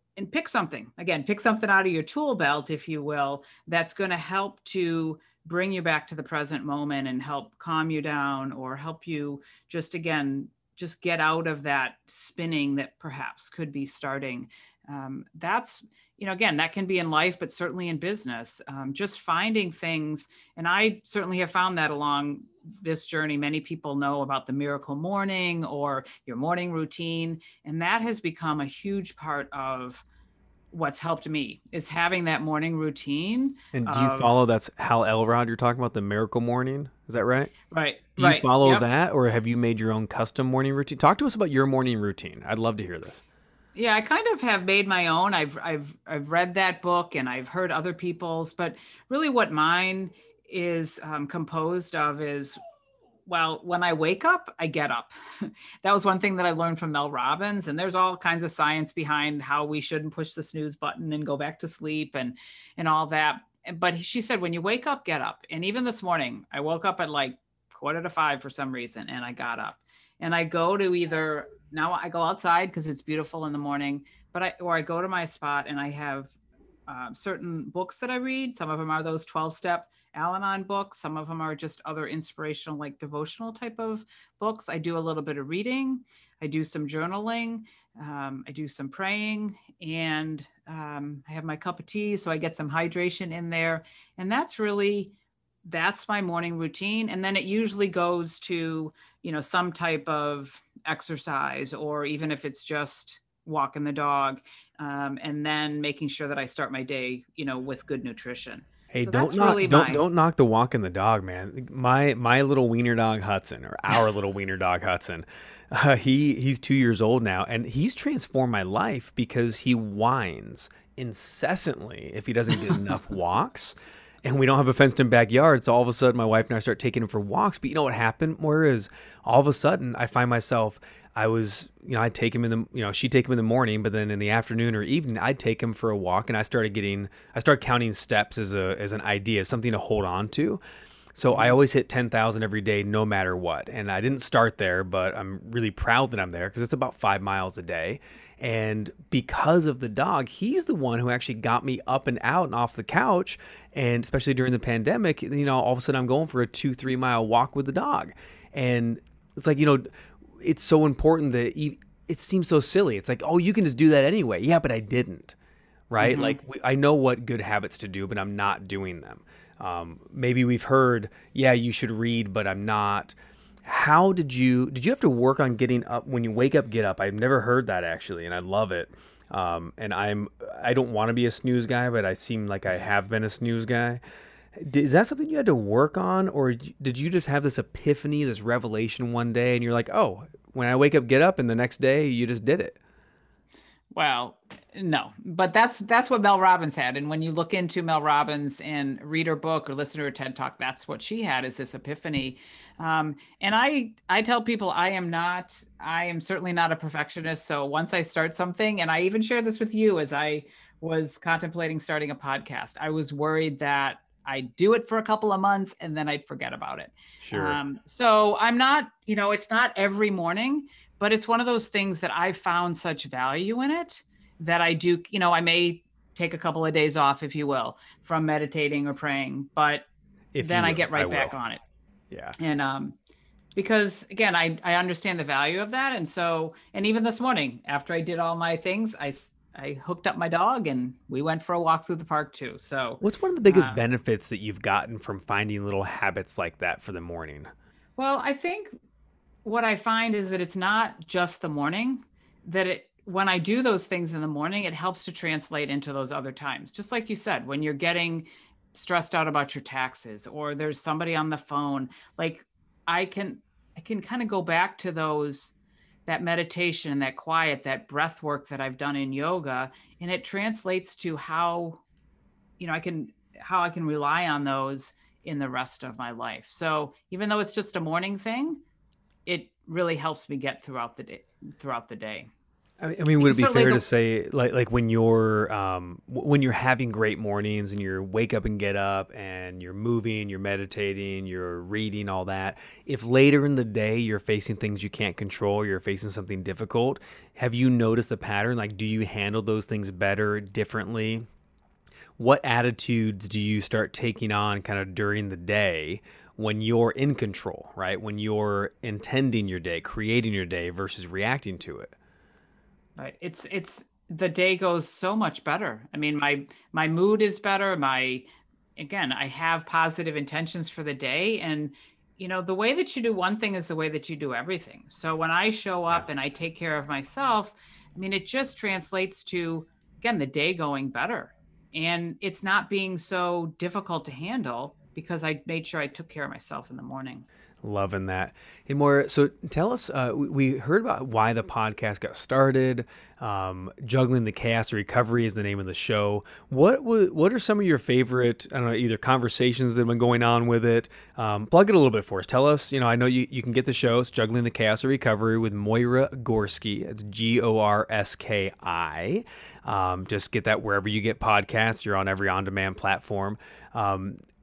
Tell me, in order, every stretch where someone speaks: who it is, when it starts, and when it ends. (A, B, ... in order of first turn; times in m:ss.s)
0:00.2-0:30.0 A
0:30.7-0:34.4 A
0:33.7-0:37.5 B
0:37.7-0:38.8 A
0:38.2-0:43.2 B
0:43.8-0:52.6 A
0:53.3-1:16.3 A
1:16.9-1:35.1 A
1:35.6-1:50.0 A
1:48.9-2:20.6 B
2:21.2-2:39.8 B
2:21.3-2:21.6 A
2:40.4-2:45.4 B
2:45.9-3:04.0 B
2:46.0-2:46.4 A
3:04.6-3:12.8 B
3:13.9-3:49.9 A
3:37.2-3:37.6 B
3:50.3-3:51.3 B
3:50.4-3:51.6 A
3:52.1-3:52.4 B
3:52.4-3:52.9 A
3:53.6-4:03.8 A
4:03.0-4:07.5 B
4:08.0-4:08.8 A
4:09.4-4:25.5 A
4:26.1-4:31.8 A
4:32.6-4:38.6 A
4:39.3-4:42.3 A
4:42.8-5:01.2 B
4:43.2-4:43.8 A
5:02.2-5:11.9 B
5:13.0-5:37.3 A
5:37.6-6:04.2 B